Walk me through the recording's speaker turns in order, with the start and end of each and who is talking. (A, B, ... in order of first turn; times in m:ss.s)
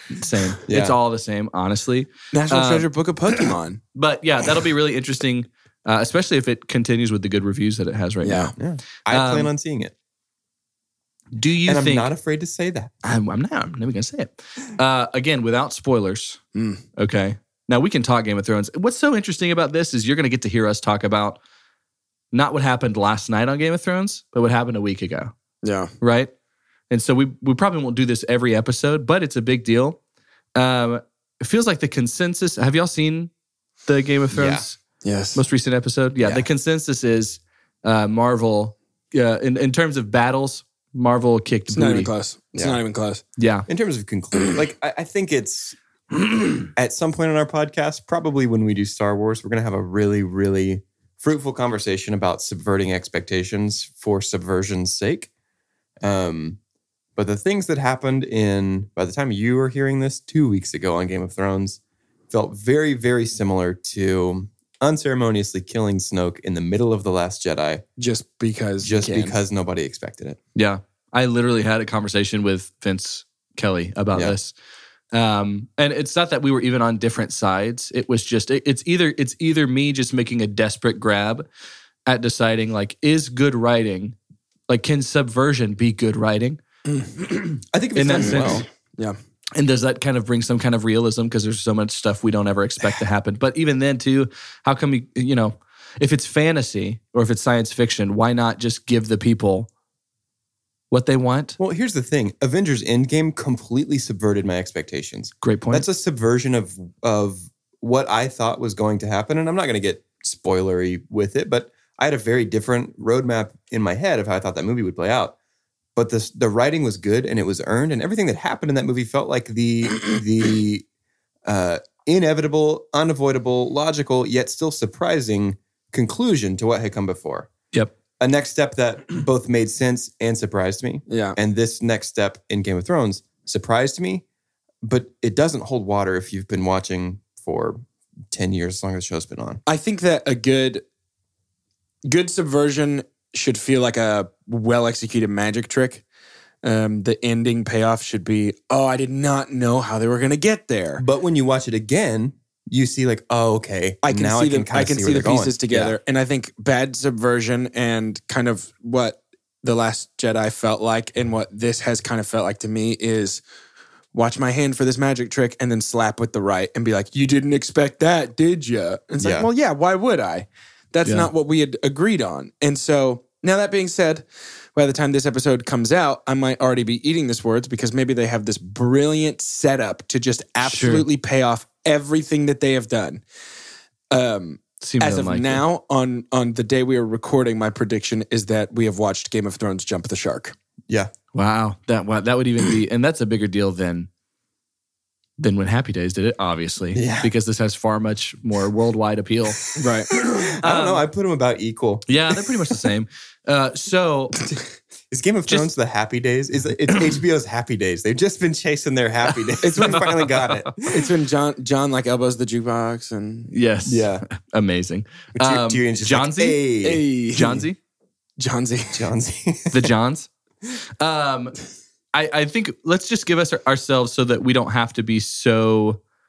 0:00.2-0:02.9 A
0:00.7-0:01.0 B
0:02.3-0:03.8 C
0:03.9-0:08.5 A
0:08.2-0:08.5 C
0:08.6-0:09.9 B
0:09.1-0:09.5 A
0:11.3-0:12.1 A
0:11.6-0:12.9 B
0:13.0-0:16.4 A
0:16.5-0:16.8 C
0:17.0-0:21.4 A
0:22.3-0:25.3 A
0:25.6-0:25.9 C
0:26.0-0:26.3 A
0:26.9-0:30.0 A
0:30.6-0:33.3 A
0:33.8-0:34.8 A
0:34.3-0:34.6 B
0:35.0-0:35.4 C
0:35.3-0:42.1 A
0:36.2-0:36.5 B
0:41.7-0:43.2 C
0:43.4-0:43.7 A
0:43.7-0:45.8 B
0:46.7-0:55.3 B
0:56.0-0:56.6 B
0:57.2-1:01.8 B
1:02.3-1:07.8 B
1:08.0-1:09.4 C
1:08.8-1:10.4 B
1:10.6-1:14.5 A
1:15.1-1:21.4 A
1:22.0-1:24.2 A
1:24.7-1:26.6 A
1:26.8-1:27.5 C
1:27.7-1:28.6 B
1:27.9-1:28.6 A
1:28.1-1:29.2 C
1:29.5-1:39.7 A
1:40.9-1:41.6 A
1:41.6-1:55.4 B
1:45.4-1:45.8 A
1:55.9-2:00.8 B
2:01.4-2:07.5 B
2:08.2-2:14.2 B
2:11.1-2:11.4 C
2:14.8-2:19.6 B
2:19.6-2:20.8 C
2:22.0-2:26.0 C
2:26.6-2:31.0 C
2:31.0-2:36.0 B
2:34.0-2:43.4 C
2:44.1-3:03.2 C
2:49.2-2:49.5 B
2:51.0-2:51.3 A
3:00.6-3:01.1 A
3:04.1-3:10.5 C
3:04.8-3:05.6 A
3:11.3-3:14.1 A
3:15.4-3:19.7 A
3:16.9-3:17.3 B
3:19.8-3:20.1 C
3:20.2-3:22.2 B
3:20.6-3:21.0 A
3:22.1-3:24.4 A
3:25.1-3:31.0 B
3:29.6-3:30.1 C
3:29.8-3:30.3 A
3:30.8-3:33.5 C
3:33.5-3:36.6 A
3:33.8-3:34.2 B
3:35.3-3:37.6 B
3:36.8-3:37.6 C
3:37.3-3:37.8 A
3:38.4-3:39.0 C
3:38.9-3:39.9 B
3:39.7-3:40.3 A
3:41.0-3:41.6 A
3:42.1-3:46.0 A